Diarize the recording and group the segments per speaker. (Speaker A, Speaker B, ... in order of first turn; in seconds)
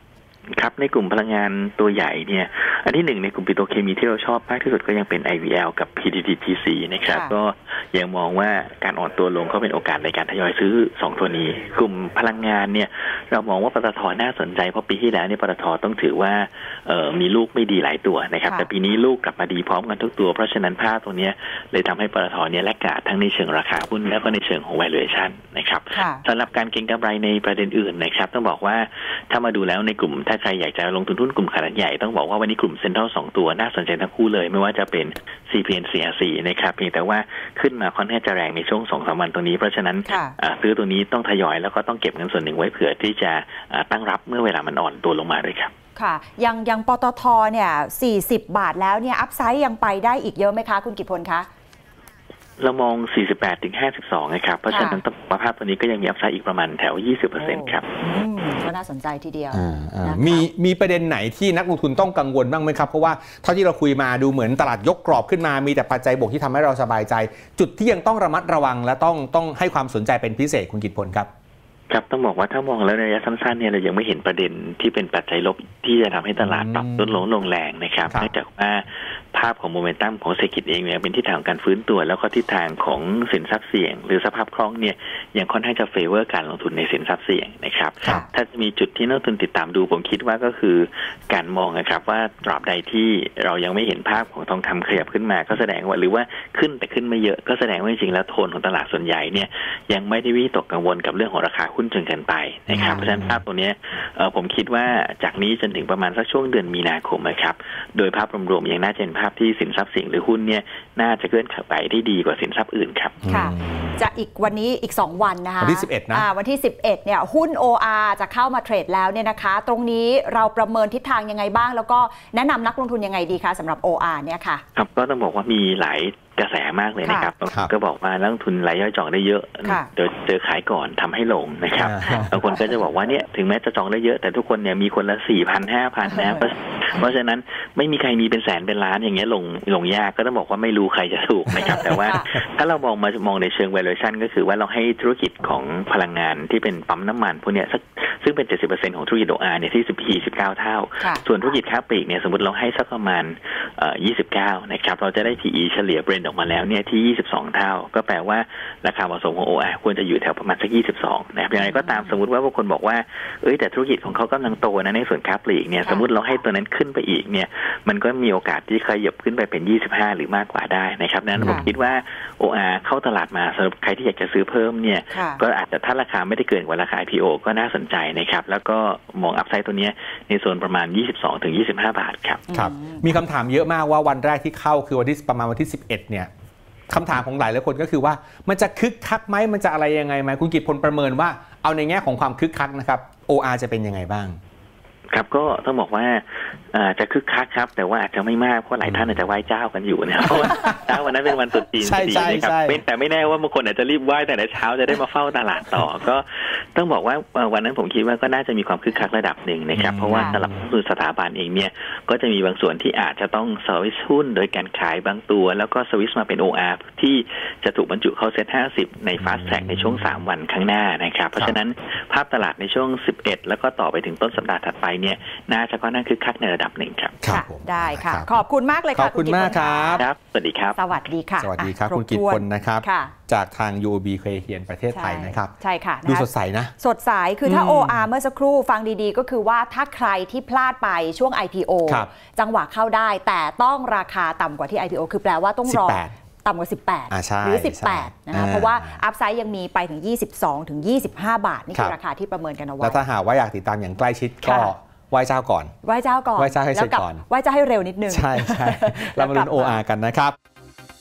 Speaker A: 0.5-45.7, 52.6-57.8, 71.9-113.3, 124.8-182.4, 195.1-227.2, 230.0-230.8
Speaker B: 7.0-7.3, 25.9-26.2, 40.1-40.3, 46.0-51.5, 54.7-55.0, 57.4-60.5, 88.0-88.3, 102.8-103.0, 113.3-124.6, 127.0-127.3, 132.1-132.4, 136.1-136.4, 141.7-142.4, 161.6-162.2, 165.8-166.1, 171.4-171.7, 175.1-175.4, 182.5-183.2, 210.1-210.4, 227.3-230.1, 230.8-233.1, 234.9-253.0, 254.4-254.7, 255.8-259.8
Speaker C: 59.5-71.3, 76.5-77.0, 102.7-103.3, 113.2-114.0, 115.6-116.2, 131.8-132.3, 171.3-171.7, 182.5-186.3, 186.9-194.4, 200.4-200.8, 201.8-202.8, 209.7-210.4, 227.2-228.3, 228.9-230.1, 231.4-235.5, 236.0-236.7, 237.4-238.1, 245.6-246.1, 247.1-248.9, 252.8-255.7, 256.4-257.2, 258.1-260.3